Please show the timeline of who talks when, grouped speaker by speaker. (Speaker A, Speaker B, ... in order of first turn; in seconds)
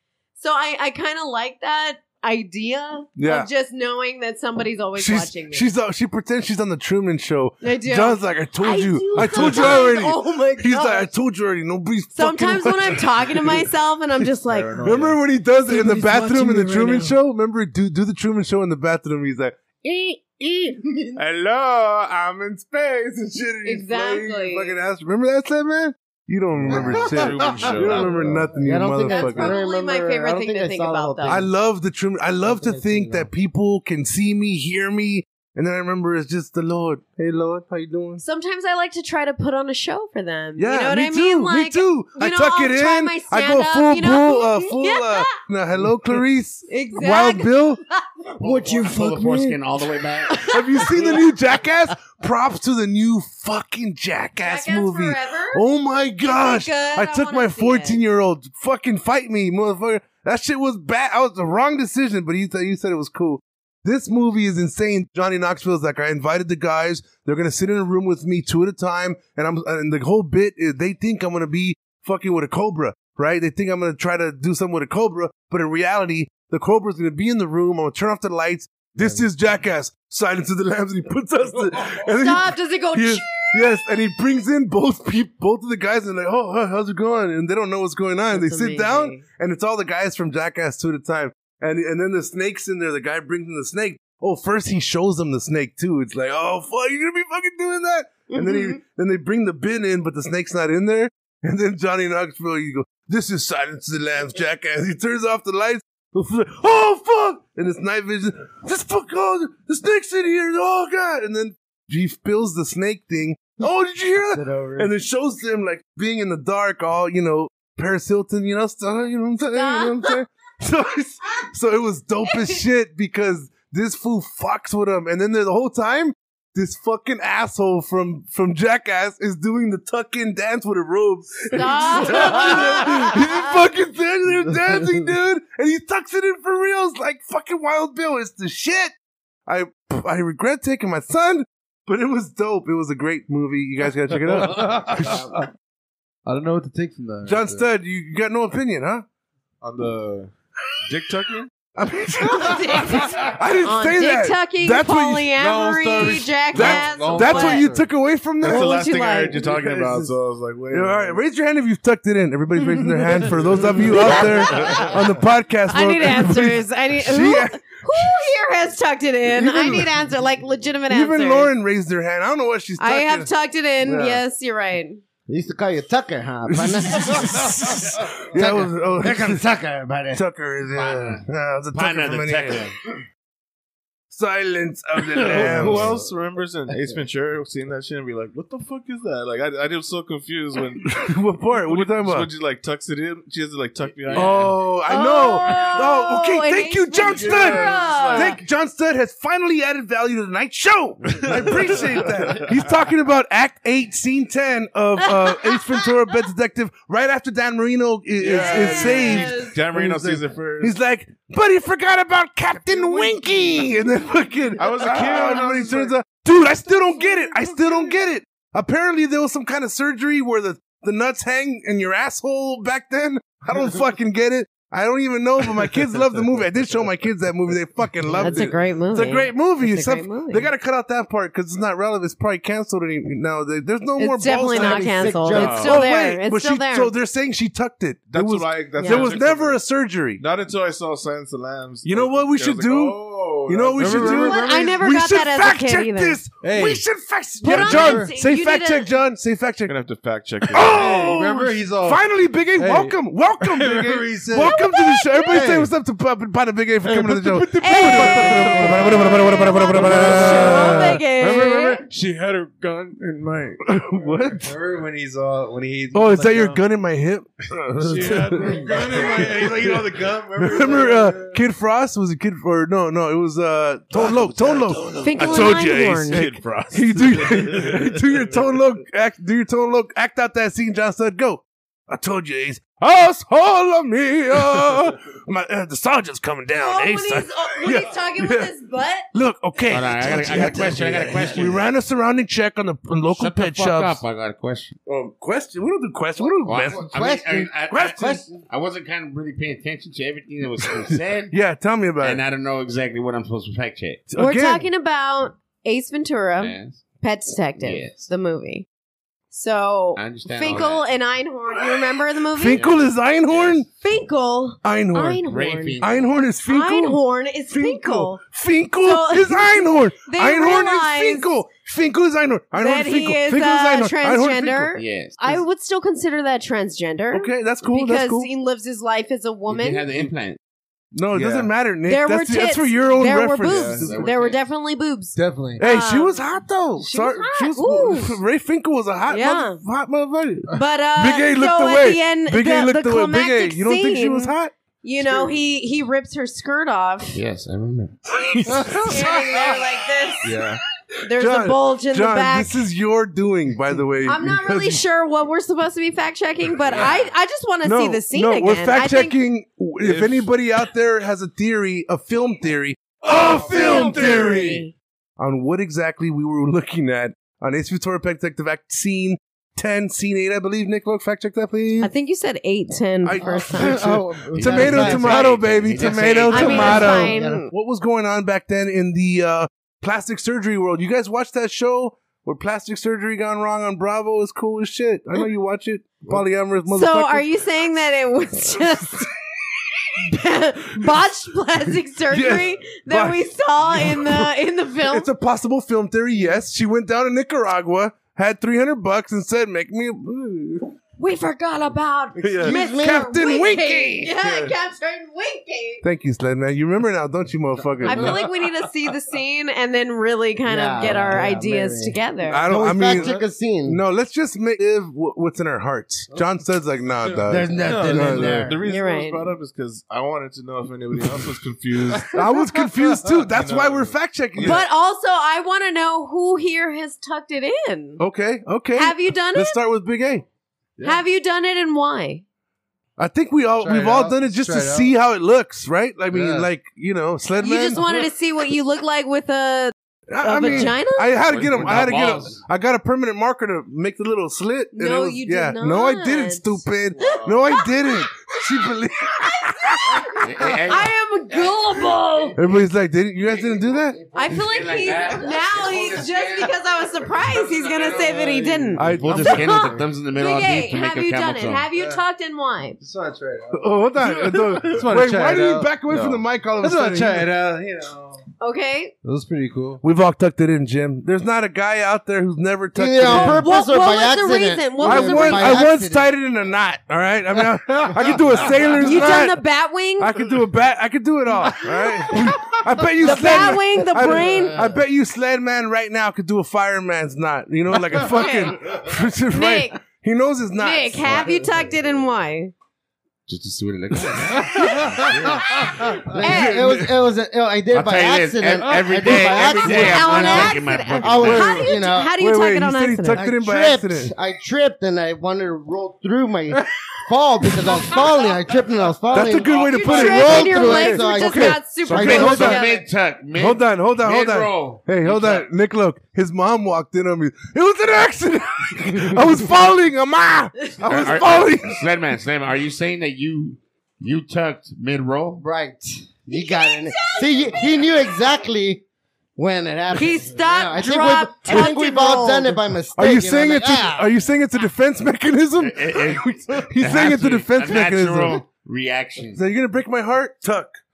Speaker A: 0.4-5.7, 7.6-11.1, 12.2-14.9, 15.7-17.1, 23.6-24.7, 29.0-31.4, 38.2-45.3, 46.7-48.0, 54.4-55.6, 56.2-58.0, 82.2-83.7, 88.3-89.2, 98.3-98.8, 119.5-120.2, 122.3-122.6, 131.5-133.6, 152.3-157.7, 158.5-159.4, 163.9-165.0, 165.7-171.5, 172.8-175.0, 194.9-198.4, 205.0-205.9, 208.3-209.6, 228.2-230.5, 234.0-236.9, 238.8-239.1, 243.9-246.2, 247.4-248.9, 254.4-255.4, 257.6-261.8, 275.0-276.3, 286.6-289.1, 304.2-308.7, 309.3-312.7, 313.8-315.8, 316.5-318.2, 318.8-321.3, 322.6-329.9, 331.9-336.2, 336.8-338.2, 339.1-339.6, 340.5-347.2, 348.9-350.4, 351.0-352.7, 354.1-359.2, 363.4-364.7, 371.8-373.8, 376.3-377.5, 386.7-389.1, 390.0-395.1, 401.0-405.8, 407.8-412.4, 418.6-419.3, 424.4-428.0, 428.7-429.6, 430.8-432.2, 437.4-441.1, 444.7-448.1, 450.0-452.4, 454.1-462.8, 468.4-468.9, 473.1-475.7, 478.8-480.2, 483.0-484.6, 488.0-488.6, 489.3-489.8, 490.6-492.5, 495.6-496.8, 499.3-503.2, 509.5-512.9, 526.3-527.5, 530.0-532.6
Speaker B: 3.2-3.5, 5.0-13.6, 14.8-29.6, 31.3-38.2, 40.6-47.8, 50.4-138.9, 139.5-145.3, 147.2-149.1, 151.8-155.4, 156.5-158.8, 159.4-159.7, 160.7-168.1, 169.3-170.0, 170.9-173.3, 173.8-174.2, 176.5-179.4, 180.1-182.7, 184.1-186.0, 190.9-192.3, 194.1-240.2, 241.8-249.8, 250.5-261.1, 263.6-264.6, 265.9-288.5, 289.1-294.0, 294.9-296.9, 297.7-298.2, 301.3-302.2, 304.1-304.7, 312.3-313.7, 314.6-315.2, 315.8-324.8, 327.1-328.3, 330.9-334.1, 335.6-345.3, 348.1-349.5, 351.1-354.8, 357.6-364.7, 365.2-371.9, 373.0-387.3, 392.1-400.7, 402.2-404.5, 405.8-408.3, 412.3-418.5, 422.1-424.6, 428.0-430.3, 433.0-438.0, 440.1-450.2, 452.4-454.0, 458.8-459.8, 463.5-467.3, 469.8-473.5, 474.8-479.4, 480.0-491.4, 496.2-496.9, 501.2-504.1, 509.1-512.7, 513.4-521.8, 533.0-538.4, 539.3-540.8
Speaker C: 9.2-9.7, 14.5-15.2, 144.4-145.0, 146.2-147.7, 155.4-157.9, 185.3-186.1, 243.8-244.8, 246.4-246.8, 247.4-248.1, 250.6-254.6, 255.3-255.7, 256.8-262.0, 264.3-266.6, 267.9-271.4, 331.1-331.5, 335.1-335.6, 433.6-434.9, 436.1-436.5, 441.9-442.2, 458.2-459.3, 461.7-462.0, 462.8-463.8, 464.6-468.2, 469.0-469.8
Speaker D: 26.7-28.5, 149.6-150.3, 150.9-151.5, 158.4-161.2, 163.3-164.9, 185.0-190.9, 191.5-194.7, 197.0-198.4, 201.1-202.8, 208.2-210.8, 213.0-213.6, 214.6-215.9, 235.3-235.8, 238.1-239.6, 240.2-244.3, 249.7-250.9, 259.7-260.6, 261.9-263.6, 267.8-269.8, 274.0-278.0, 350.2-350.6, 359.8-360.3, 363.2-364.1, 412.9-413.1, 417.6-422.2, 423.3-424.6, 447.0-447.4, 465.9-466.2
Speaker E: 26.7-27.2, 28.6-31.5, 32.4-33.3, 48.4-49.6, 114.2-114.9, 175.3-180.2, 234.5-235.7, 296.7-298.4, 373.2-375.5, 376.4-377.5, 402.4-403.2, 410.5-413.8, 417.3-418.6, 454.0-455.0, 472.8-476.1, 495.9-502.2, 503.1-512.6, 525.4-528.8, 529.4-534.1
Speaker F: 48.4-50.5, 180.7-182.8, 289.7-291.7, 293.1-294.8, 296.4-301.3, 302.0-304.0, 306.4-306.8, 307.6-308.1, 310.0-310.8, 312.5-313.6, 315.2-316.1, 324.8-325.4, 329.5-330.4, 333.8-334.4, 347.1-348.0, 356.7-357.0, 374.3-377.0, 441.2-442.4, 450.2-450.9, 454.3-456.6, 457.2-458.2, 459.0-461.7, 493.3-495.7, 497.7-501.6, 512.1-515.5, 520.8-525.4, 535.6-539.4